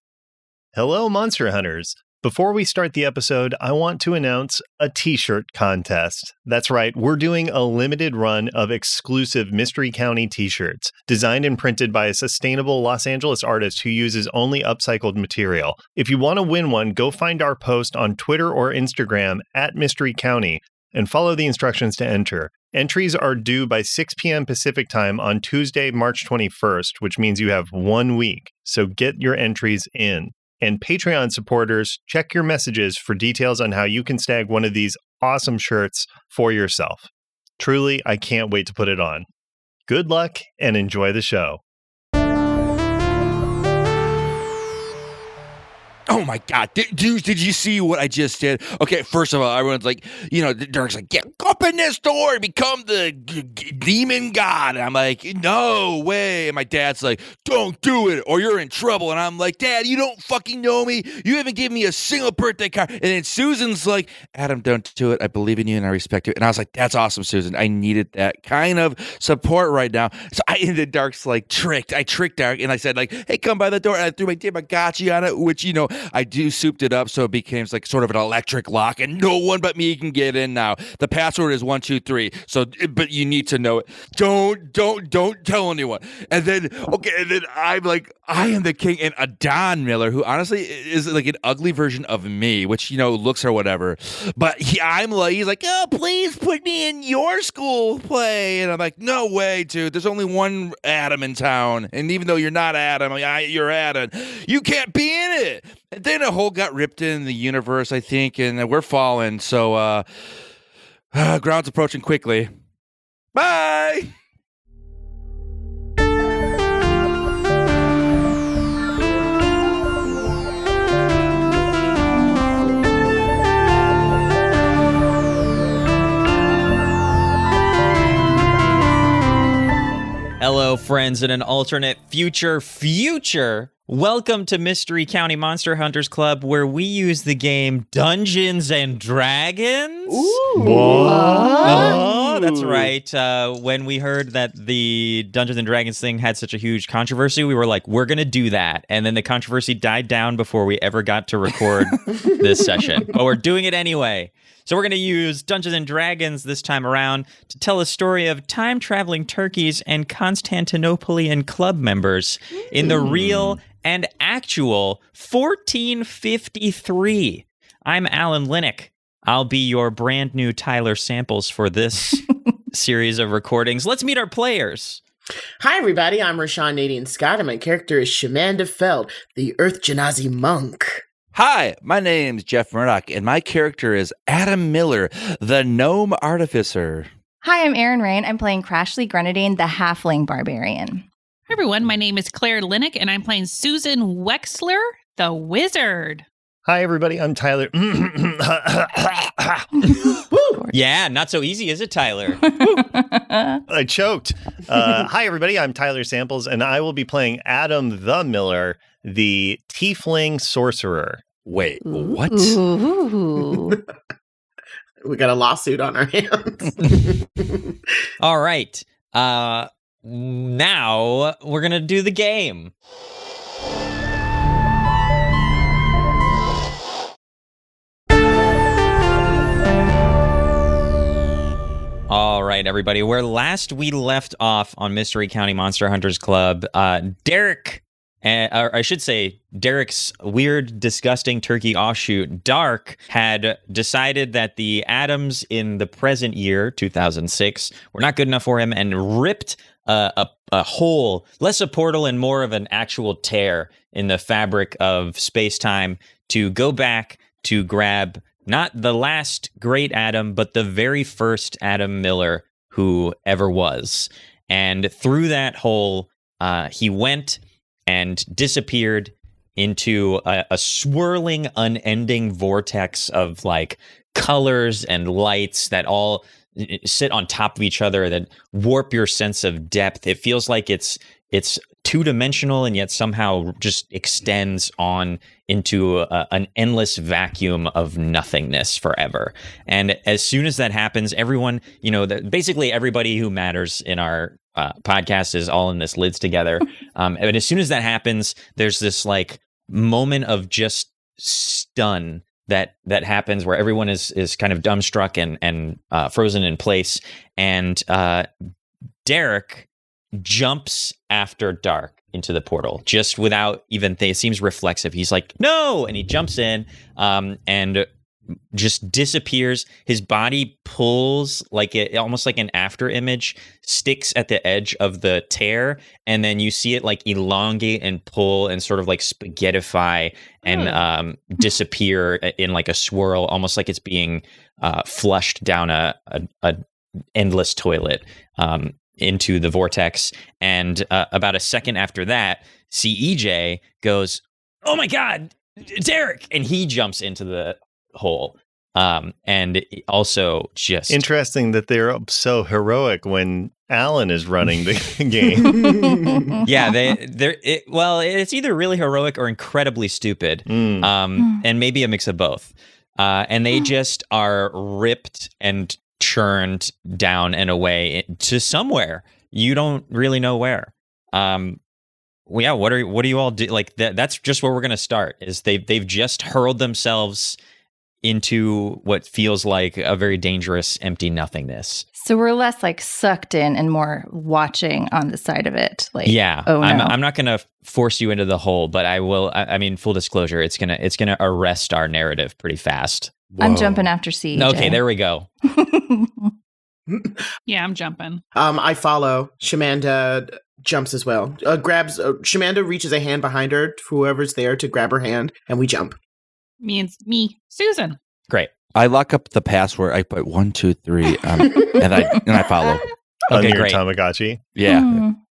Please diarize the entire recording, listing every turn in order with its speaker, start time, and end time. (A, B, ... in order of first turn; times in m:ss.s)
0:00.7-0:39.2 A
0:39.9-0:41.6 A
0:46.1-1:50.0 B
1:51.1-1:52.5 B
1:53.3-1:54.1 B
2:10.4-2:20.4 C
2:20.1-2:22.9 B
2:20.6-2:21.9 A
2:20.6-2:22.0 D
2:21.6-2:55.0 C
2:42.9-2:43.6 B
2:55.6-3:01.0 E
3:01.3-3:07.1 B
3:07.4-3:11.0 D
3:11.5-3:16.2 F
3:16.6-3:19.7 A
3:20.3-3:20.6 E
3:20.7-3:22.5 C
3:22.4-3:23.6 D
3:23.7-3:31.2 A
3:31.4-3:32.6 B
3:31.8-3:33.8 D
3:33.4-3:33.8 E
3:35.0-3:37.8 E
3:38.2-3:42.7 C
3:52.1-5:08.3 C
5:09.0-5:17.8 C
5:18.5-5:36.6 C
5:30.4-5:30.8 D
5:37.1-5:51.0 C
5:50.9-5:55.7 A
5:55.4-5:56.2 E
5:56.4-6:11.6 C
6:00.4-6:00.9 A
6:01.2-6:01.4 D
6:12.3-6:17.4 C
6:18.0-6:21.8 C
6:22.0-6:27.0 D
6:26.0-6:33.1 C
6:33.3-6:33.9 B
6:33.4-6:34.8 D
6:34.3-6:35.3 C
6:35.4-6:36.3 D
6:36.9-6:37.3 E
6:37.4-6:38.2 F
6:38.3-6:46.0 E
6:46.6-6:48.0 F
6:48.7-6:52.8 B
6:52.3-6:52.8 D
6:53.3-6:53.8 C
6:53.3-6:54.4 A
6:54.5-6:55.0 B
6:54.6-6:55.2 D